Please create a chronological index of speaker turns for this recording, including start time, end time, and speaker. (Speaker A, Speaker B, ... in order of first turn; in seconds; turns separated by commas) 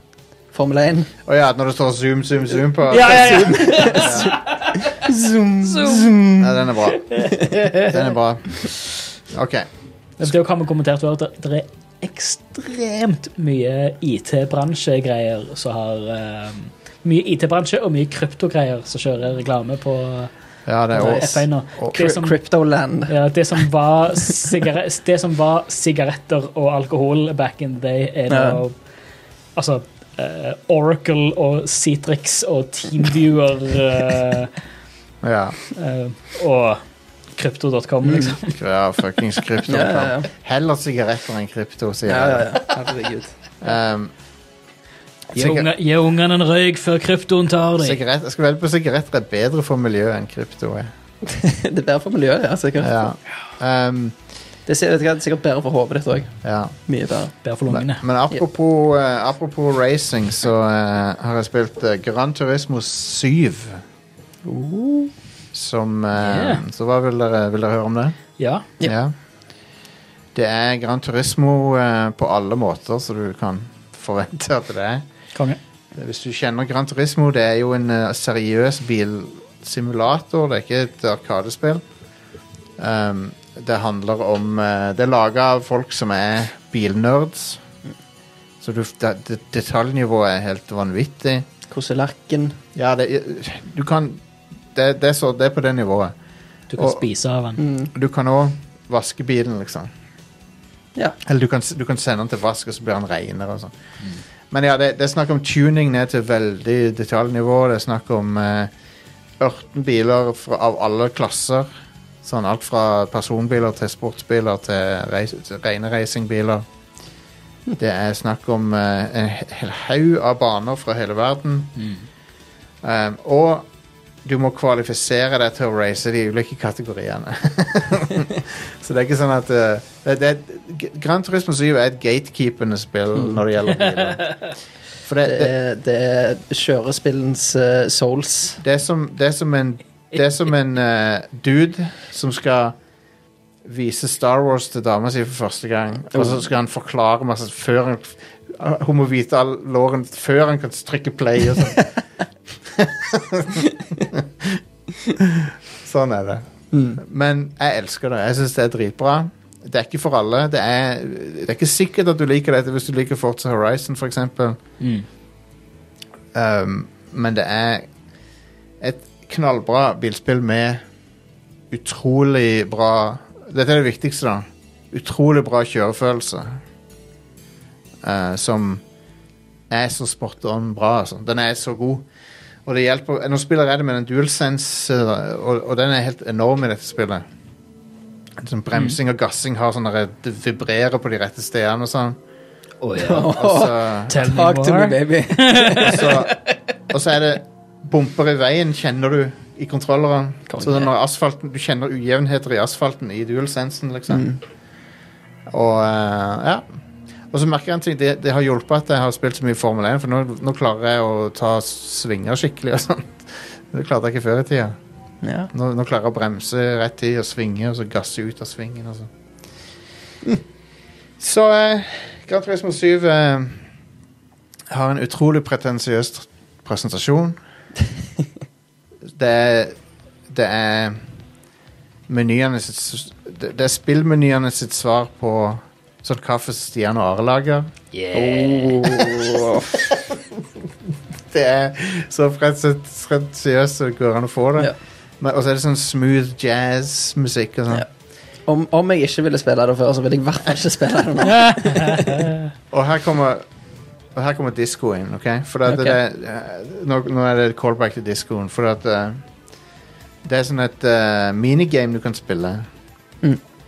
Speaker A: 0.5-1.1, Speaker B: 1.3-4.3, Speaker C: 2.9-5.0, Speaker A: 3.1-6.7, Speaker C: 5.6-6.1, Speaker B: 6.4-8.7, Speaker C: 7.0-7.9, Speaker B: 9.3-9.7, Speaker C: 10.2-20.3, Speaker B: 20.7-21.9, Speaker C: 20.9-22.4, Speaker A: 21.0-23.1, Speaker C: 23.1-28.7, Speaker A: 28.3-28.6, Speaker C: 29.6-34.5, Speaker B: 35.2-35.6, Speaker C: 35.7-36.8, Speaker C: 37.4-38.5, Speaker A: 38.0-38.3, Speaker B: 38.5-42.6, Speaker A: 39.7-40.3, Speaker A: 42.0-43.3, Speaker B: 43.6-44.1, Speaker B: 45.3-45.7, Speaker C: 45.3-48.0, Speaker B: 47.8-50.9, Speaker A: 51.2-53.1, Speaker B: 52.8-54.2, Speaker A: 54.7-57.3, Speaker B: 56.4-56.7, Speaker C: 57.4-58.0, Speaker B: 57.7-63.8, Speaker A: 64.5-65.1, Speaker B: 65.5-68.2, Speaker C: 66.2-66.6, Speaker C: 68.4-68.7, Speaker B: 68.8-69.1, Speaker B: 70.3-75.0, Speaker B: 76.0-81.8, Speaker B: 82.8-87.6, Speaker B: 88.6-91.5, Speaker A: 91.7-92.6, Speaker B: 92.8-96.1, Speaker C: 96.7-97.6, Speaker B: 96.8-97.0, Speaker A: 97.6-97.9, Speaker B: 97.9-99.9, Speaker B: 101.2-103.7, Speaker B: 104.5-108.7, Speaker B: 109.4-111.7, Speaker B: 112.2-116.7, Speaker B: 117.8-121.7, Speaker B: 122.8-123.7, Speaker B: 124.2-134.5, Speaker B: 135.0-135.5, Speaker A: 135.2-138.6, Speaker B: 138.6-142.8, Speaker B: 143.6-151.9, Speaker A: 146.2-146.4, Speaker B: 152.6-164.6, Speaker A: 156.7-157.0, Speaker C: 164.8-165.1, Speaker B: 166.3-167.9, Speaker B: 168.8-170.8, Speaker B: 171.7-176.6, Speaker B: 178.0-178.8, Speaker B: 179.7-182.1, Speaker B: 182.7-187.2, Speaker B: 188.4-192.2, Speaker C: 192.8-193.4, Speaker A: 193.0-196.3, Speaker B: 193.2-194.2, Speaker C: 194.1-196.1, Speaker B: 195.8-196.3, Speaker B: 196.9-204.3, Speaker A: 200.5-200.9, Speaker A: 204.1-204.4, Speaker B: 205.5-206.7, Speaker B: 207.3-214.8, Speaker A: 215.2-215.5, Speaker B: 215.5-219.1, Speaker B: 221.2-223.6, Speaker B: 224.7-227.4, Speaker B: 229.1-229.8, Speaker B: 230.3-231.0, Speaker B: 232.1-237.7, Speaker C: 237.9-238.9, Speaker A: 238.1-239.8, Speaker B: 239.7-240.4, Speaker B: 241.3-247.9, Speaker A: 248.5-252.2, Speaker C: 251.3-252.4, Speaker B: 252.7-253.4, Speaker B: 254.1-259.2, Speaker A: 255.7-256.0, Speaker B: 260.2-262.7